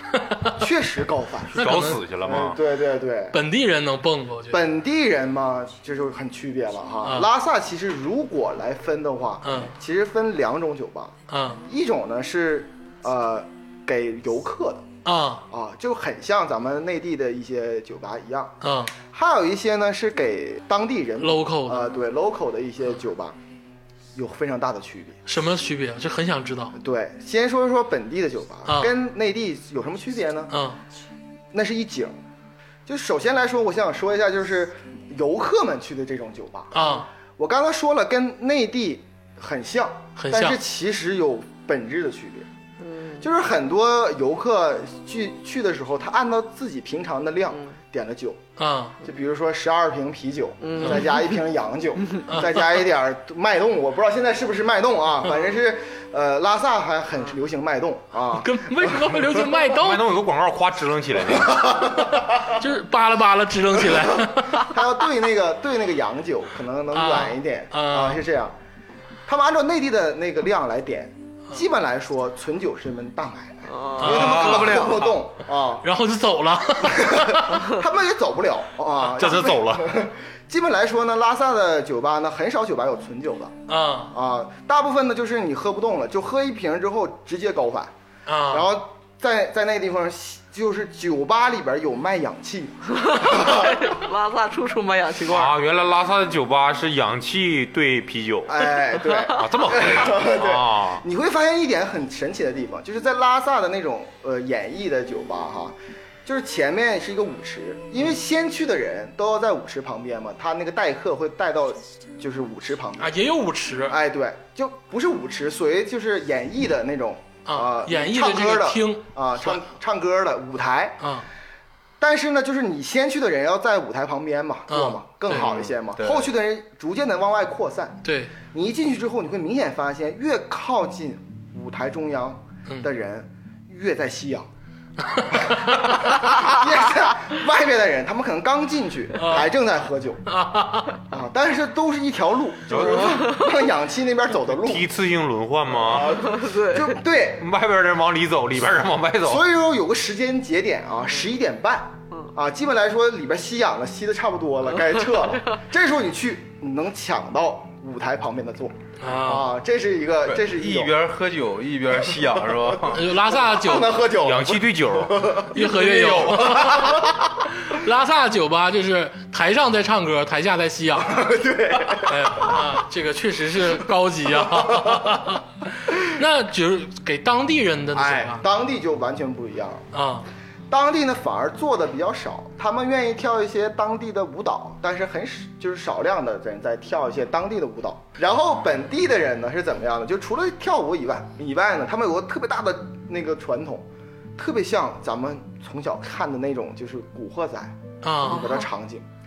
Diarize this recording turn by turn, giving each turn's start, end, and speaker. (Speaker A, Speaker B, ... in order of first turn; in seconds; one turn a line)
Speaker A: 0.2-0.6
Speaker B: 0.4-3.4
Speaker A: 1.5-2.0
Speaker C: 1.6-2.6
Speaker A: 3.3-4.6
Speaker B: 4.5-11.1
Speaker A: 7.0-7.3
Speaker A: 9.4-9.7
Speaker A: 11.3-11.6
Speaker B: 11.6-14.8
Speaker A: 15.0-15.4
Speaker B: 15.5-18.5
Speaker A: 18.6-18.9
Speaker B: 19.1-23.4
Speaker A: 21.2-21.9
Speaker B: 24.1-25.2
Speaker A: 25.2-26.7
Speaker B: 26.8-30.5
Speaker A: 30.5-30.8
Speaker B: 31.5-32.1
Speaker B: 32.9-36.7
Speaker A: 36.7-37.1
Speaker B: 37.4-42.5
Speaker A: 40.2-40.6
Speaker D: 42.8-43.3
Speaker B: 43.2-48.4
Speaker A: 48.6-49.0
Speaker B: 49.0-59.5
Speaker D: 50.6-51.2
Speaker A: 52.2-52.6
Speaker A: 58.3-60.0
Speaker C: 59.8-61.8
Speaker B: 61.5-62.2
Speaker A: 62.5-64.7
Speaker B: 64.6-68.5
Speaker A: 66.9-68.2
Speaker B: 69.2-75.8
Speaker D: 73.7-75.1
Speaker A: 74.0-74.7
Speaker E: 74.1-74.8
Speaker A: 75.8-77.6
Speaker B: 76.8-83.5
Speaker C: 79.0-79.9
Speaker A: 83.7-84.1
Speaker B: 84.1-87.9
Speaker A: 88.3-88.7
Speaker B: 88.5-94.0
Speaker D: 93.0-95.5
Speaker C: 95.2-98.6
Speaker B: 98.5-105.7
Speaker D: 99.0-99.4
Speaker C: 99.3-101.0
Speaker B: 106.2-113.1
Speaker A: 113.0-114.0
Speaker B: 113.9-121.0
Speaker A: 117.5-119.6
Speaker A: 121.0-121.2
Speaker B: 122.0-134.5
Speaker A: 124.7-125.5
Speaker E: 125.3-126.3
Speaker A: 128.0-128.3
Speaker A: 135.1-135.9
Speaker B: 135.5-140.2
Speaker A: 139.2-139.5
Speaker A: 140.3-141.0
Speaker B: 141.1-144.8
Speaker D: 142.8-143.5
Speaker C: 144.5-146.2
Speaker B: 145.7-147.4
Speaker D: 146.3-147.0
Speaker C: 147.4-149.4
Speaker B: 149.2-160.9
Speaker A: 159.0-159.5
Speaker E: 160.2-163.0
Speaker B: 162.1-167.4
Speaker A: 162.9-164.1
Speaker C: 164.2-165.4
Speaker A: 165.5-171.2
Speaker E: 165.8-166.2
Speaker B: 171.0-172.6
Speaker A: 172.0-178.4
Speaker B: 174.4-175.1
Speaker B: 177.9-179.8
Speaker A: 179.9-180.2
Speaker B: 180.7-199.0
Speaker A: 198.0-198.5
Speaker D: 198.3-198.7